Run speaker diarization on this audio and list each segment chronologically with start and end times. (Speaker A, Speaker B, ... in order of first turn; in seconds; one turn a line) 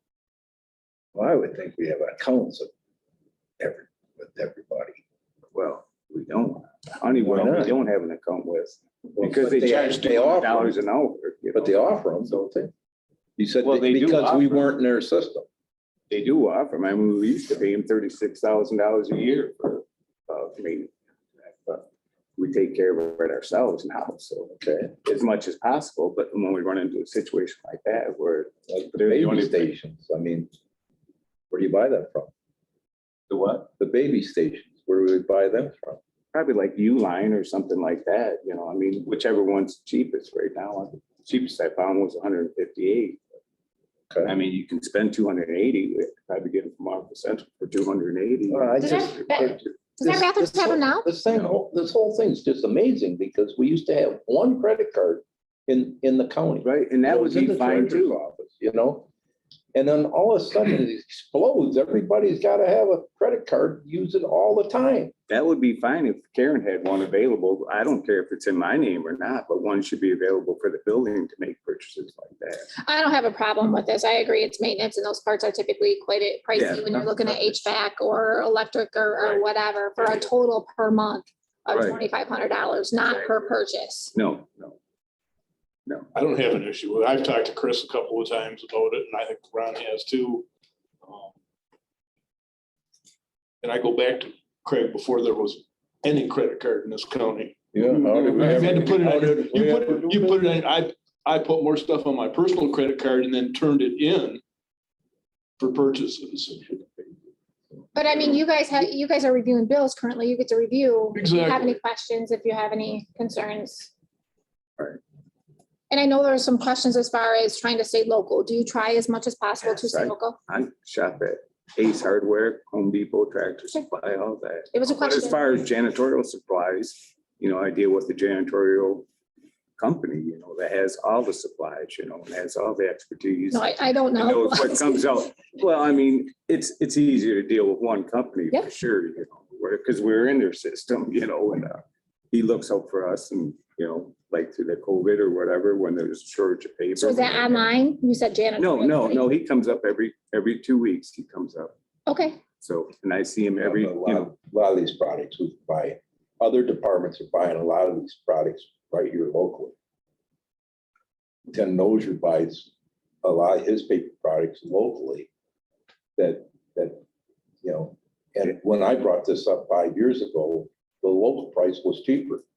Speaker A: 1.1-2.7
Speaker A: 3.6-5.0
Speaker B: 5.5-11.8
Speaker A: 7.2-7.8
Speaker A: 9.2-10.8
Speaker A: 11.6-12.7
Speaker A: 13.4-15.5
Speaker B: 13.6-14.7
Speaker B: 16.1-21.9
Speaker B: 22.4-29.7
Speaker A: 24.6-24.9
Speaker A: 28.7-30.5
Speaker A: 31.5-32.3
Speaker B: 33.3-33.7
Speaker A: 33.8-36.0
Speaker B: 36.3-43.2
Speaker B: 44.2-49.7
Speaker A: 48.5-59.1
Speaker C: 48.8-51.1
Speaker B: 56.6-58.2
Speaker A: 59.7-65.1
Speaker B: 65.3-72.7
Speaker C: 72.8-84.1
Speaker B: 76.5-77.6
Speaker B: 81.7-82.0
Speaker B: 83.1-83.5
Speaker B: 84.1-84.8
Speaker D: 86.2-90.5
Speaker D: 91.0-91.3
Speaker D: 93.6-104.4
Speaker A: 97.7-100.4
Speaker D: 105.6-106.7
Speaker C: 107.9-113.9
Speaker D: 111.2-111.8
Speaker C: 115.9-120.4
Speaker B: 119.6-129.1
Speaker C: 124.7-125.4
Speaker B: 129.8-147.7
Speaker C: 133.5-135.1
Speaker C: 147.0-149.3
Speaker B: 148.6-151.7
Speaker C: 152.1-152.4
Speaker B: 152.6-154.3
Speaker A: 153.6-159.8
Speaker A: 161.5-162.7
Speaker A: 163.2-165.3
Speaker A: 166.2-167.0
Speaker A: 167.6-172.4